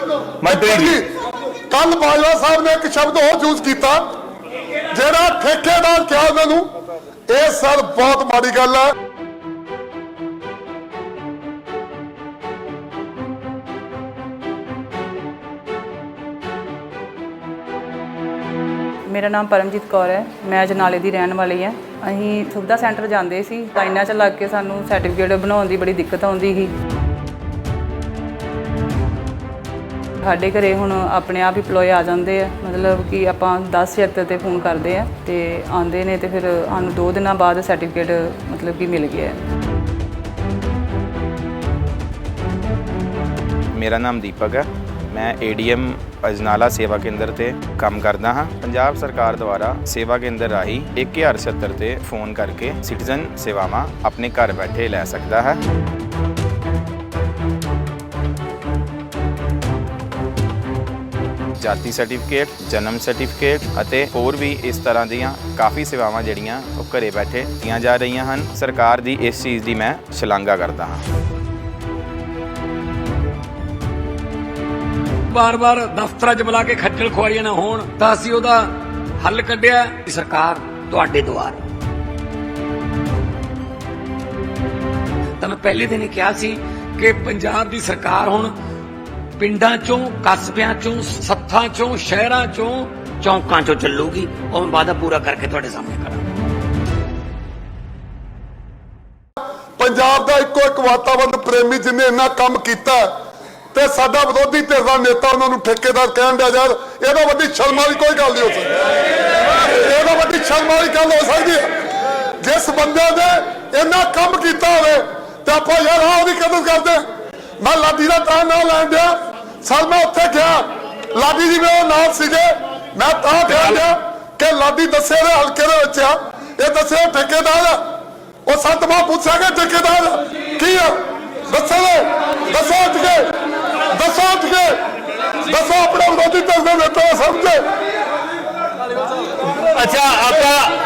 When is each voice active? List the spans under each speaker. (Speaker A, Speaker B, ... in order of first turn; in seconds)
Speaker A: 0.4-1.0, 123.5-123.8, 139.5-140.7
Speaker B: 0.4-1.1, 1.7-4.1, 4.9-6.7, 7.3-8.9, 99.8-103.1, 103.7-108.7, 109.4-111.7, 112.4-117.0, 117.6-127.8, 128.4-133.3, 133.9-134.8, 135.5-137.7, 140.2-140.5
Speaker C: 19.1-26.7, 30.2-39.4
Speaker D: 43.7-55.6, 61.6-71.0
Speaker E: 75.3-81.6, 85.4-88.5, 89.4-96.2